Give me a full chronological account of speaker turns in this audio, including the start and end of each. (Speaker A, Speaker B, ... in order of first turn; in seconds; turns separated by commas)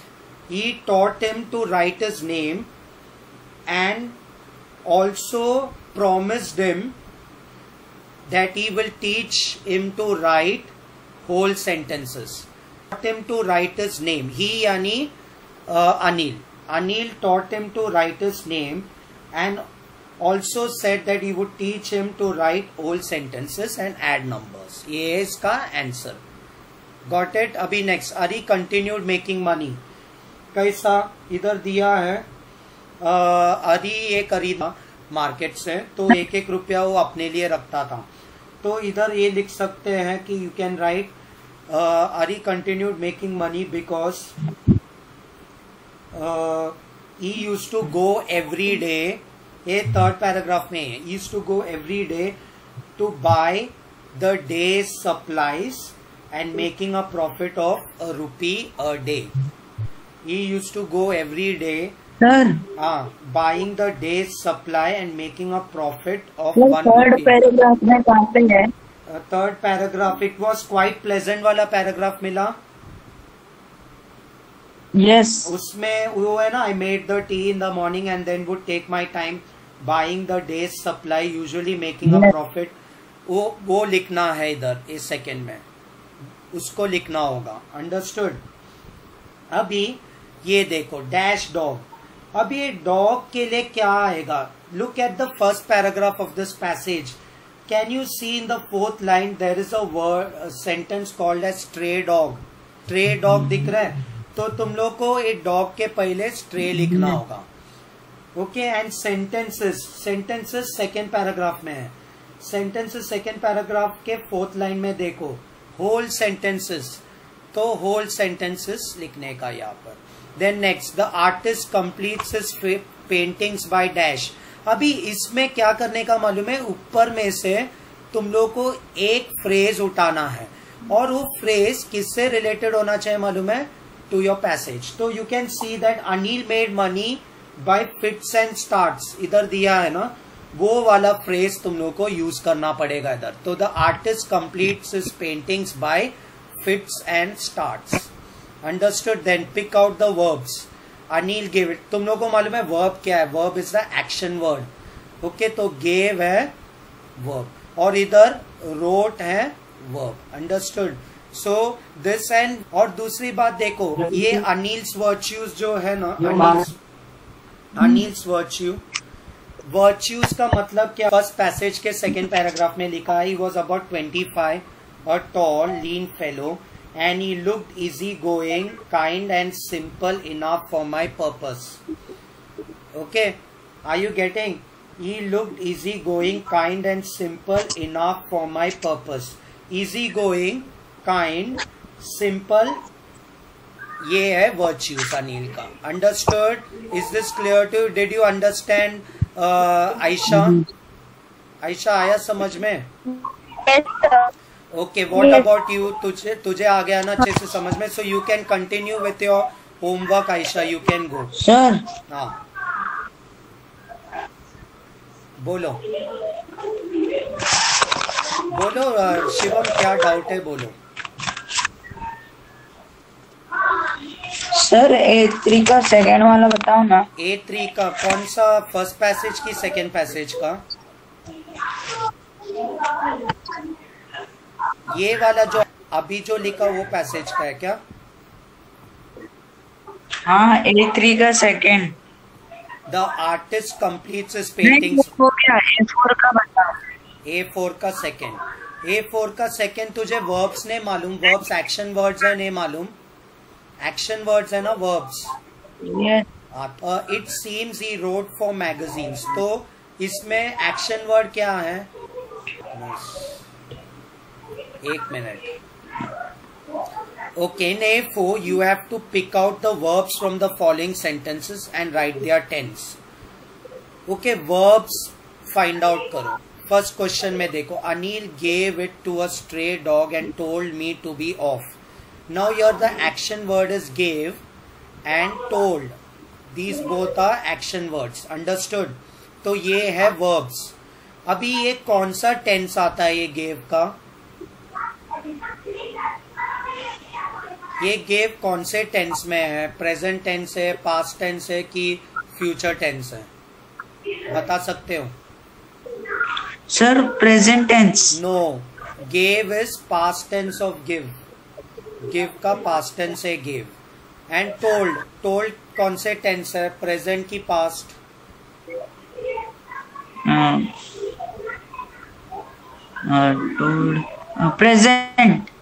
Speaker A: 0.5-2.7, Speaker A: 3.7-4.2, Speaker A: 4.8-6.9, Speaker A: 8.3-10.7, Speaker A: 11.2-15.1, Speaker A: 15.7-19.6, Speaker A: 20.2-26.2, Speaker A: 27.1-29.8, Speaker A: 30.5-32.2, Speaker A: 33.0-38.1, Speaker A: 38.6-41.1, Speaker A: 41.7-44.3, Speaker A: 46.1-52.4, Speaker A: 53.0-59.3, Speaker A: 60.2-62.0, Speaker B: 62.2-62.6, Speaker A: 62.8-67.4, Speaker B: 66.5-68.7, Speaker A: 69.1-72.5, Speaker B: 75.0-75.5, Speaker A: 75.4-85.6, Speaker B: 82.1-82.3, Speaker A: 86.5-88.4, Speaker A: 89.5-107.5, Speaker A: 108.4-148.1, Speaker A: 148.6-154.7, Speaker A: 155.2-156.5, Speaker A: 157.2-166.8, Speaker A: 167.8-168.8, Speaker A: 169.6-181.8, Speaker A: 182.9-192.8, Speaker A: 194.0-200.6, Speaker A: 201.6-202.9, Speaker A: 204.7-211.3, Speaker B: 205.2-205.4, Speaker B: 211.3-211.8, Speaker A: 212.1-212.4, Speaker A: 215.4-215.8, Speaker A: 218.5-220.8, Speaker B: 224.5-227.1, Speaker A: 227.2-230.6, Speaker A: 234.9-237.8, Speaker B: 240.2-241.9, Speaker A: 242.9-245.1, Speaker B: 244.6-246.7, Speaker A: 247.2-252.9, Speaker A: 253.8-255.3, Speaker B: 255.8-256.2, Speaker A: 256.5-261.9, Speaker A: 262.7-263.4, Speaker A: 264.8-265.5, Speaker A: 267.4-273.0, Speaker A: 274.1-281.8, Speaker A: 282.3-284.4, Speaker A: 285.1-285.9, Speaker A: 286.5-290.8, Speaker A: 291.3-293.9, Speaker A: 297.8-303.3, Speaker A: 304.3-305.1, Speaker B: 306.7-308.2, Speaker A: 308.1-311.2, Speaker A: 312.0-313.8, Speaker A: 314.3-318.0, Speaker B: 320.2-320.7, Speaker B: 323.1-325.5